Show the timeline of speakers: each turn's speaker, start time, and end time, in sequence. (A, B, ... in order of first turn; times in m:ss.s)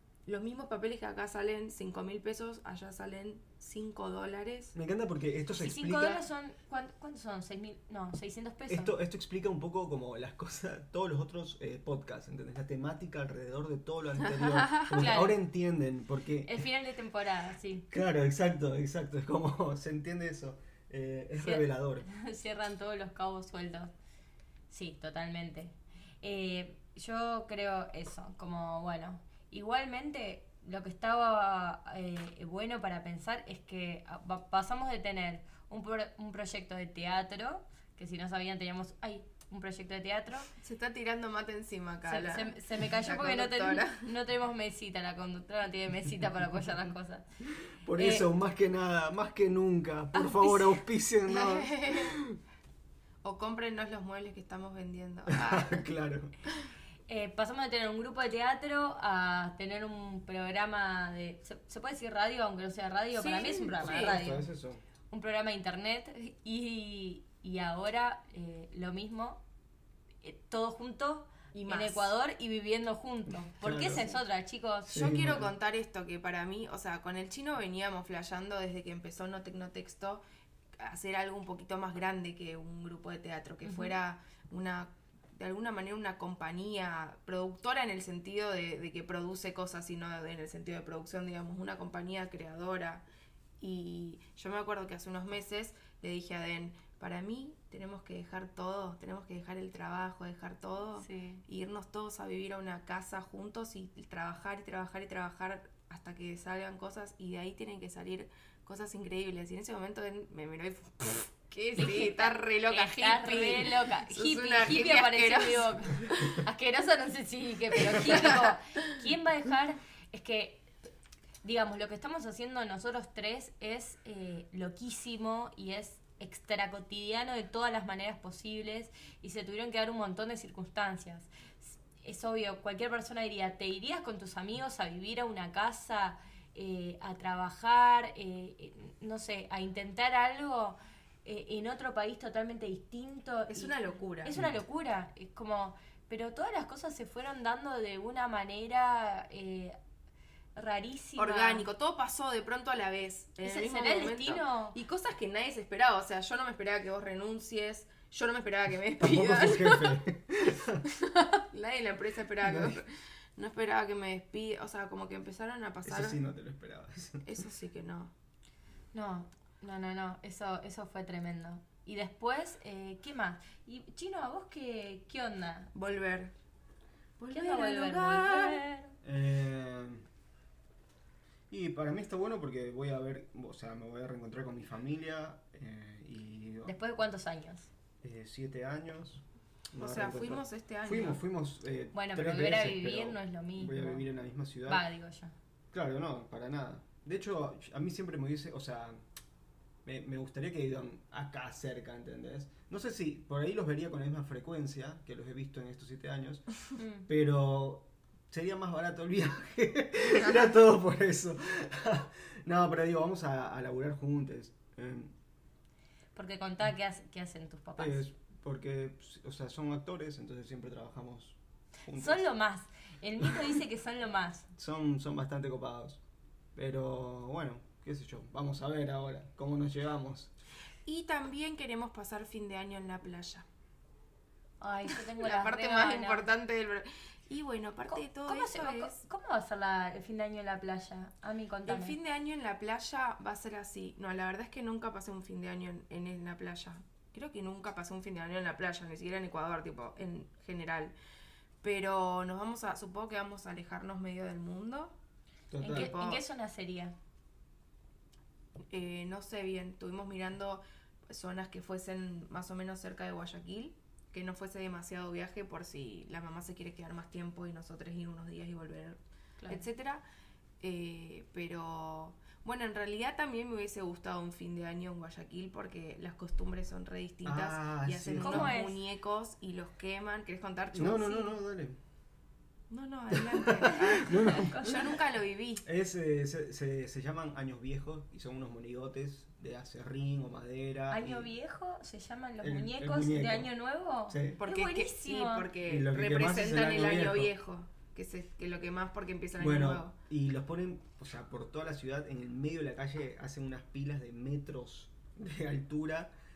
0:00.3-0:04.8 A
0:04.8-0:06.2 B
0:05.6-0:09.0 C
0:08.7-0:16.5 B
0:14.3-0:15.0 A
0:14.9-0:15.4 C
0:16.5-0:17.9 C
0:17.9-0:22.1 B
0:21.4-0:23.9 C
0:24.7-0:40.5 C
0:40.6-0:44.1 A
0:42.1-0:47.2 C
0:47.8-0:52.4 B
0:48.0-0:48.3 C
0:50.1-0:50.8 C
0:51.3-0:52.2 A
0:53.2-0:55.9 A
0:55.3-0:56.3 B
0:57.1-1:04.5 C
1:03.2-1:04.2 A
1:03.8-1:04.8 B
1:05.1-1:09.4 C
1:10.2-1:15.0 C
1:11.6-1:12.1 A
1:13.6-1:14.1 B
1:14.9-1:15.5 B
1:14.9-1:20.2 A
1:20.8-1:33.0 A
1:23.6-1:24.0 C
1:33.6-1:56.4 A
1:41.0-1:41.4 C
1:51.7-2:00.7 C
1:57.9-1:58.6 A
2:01.4-2:29.8 C
2:23.5-2:24.3 A
2:30.6-2:31.7 C
2:31.2-2:40.0 A
2:33.4-2:34.8 C
2:39.0-2:40.8 B
2:41.0-2:46.2 A
2:42.4-2:42.8 B
2:45.8-2:47.3 B
2:47.2-2:48.1 A
2:48.9-2:55.7 C
2:55.8-2:56.3 A
2:57.2-2:58.6 A
2:57.3-2:59.0 C
2:59.0-3:00.0 B
3:01.5-3:06.7 B
3:06.6-3:07.7 C
3:08.0-3:09.2 B
3:09.7-3:14.8 B
3:09.8-3:11.2 A
3:11.9-3:14.0 C
3:14.7-3:15.3 C
3:15.7-3:19.0 B
3:19.8-3:26.4 B
3:26.8-3:27.1 C
3:27.1-3:35.1 B
3:36.2-3:38.0 C
3:37.8-3:42.2 B
3:41.9-3:44.5 C
3:44.6-3:46.0 B
3:46.6-3:50.3 B
3:50.9-3:53.5 A
3:54.6-3:56.3 C
3:55.0-3:59.0 A
3:57.9-4:02.0 C
4:01.7-4:11.0 A
4:11.6-4:14.9 A
4:15.5-4:15.9 B
4:15.6-4:17.0 C
4:15.7-4:16.2 A
4:18.7-4:30.0 A
4:30.6-4:41.4 A
4:37.2-4:38.5 B
4:38.2-4:38.8 C
4:40.7-4:41.8 B
4:42.7-4:45.6 A
4:43.1-4:45.0 B
4:44.0-4:44.8 C
4:45.6-4:51.3 B
4:50.9-4:55.5 C
4:52.4-4:53.5 B
4:54.1-4:54.4 B
4:54.4-5:00.0 A
4:55.7-4:57.3 B
4:59.4-5:06.1 B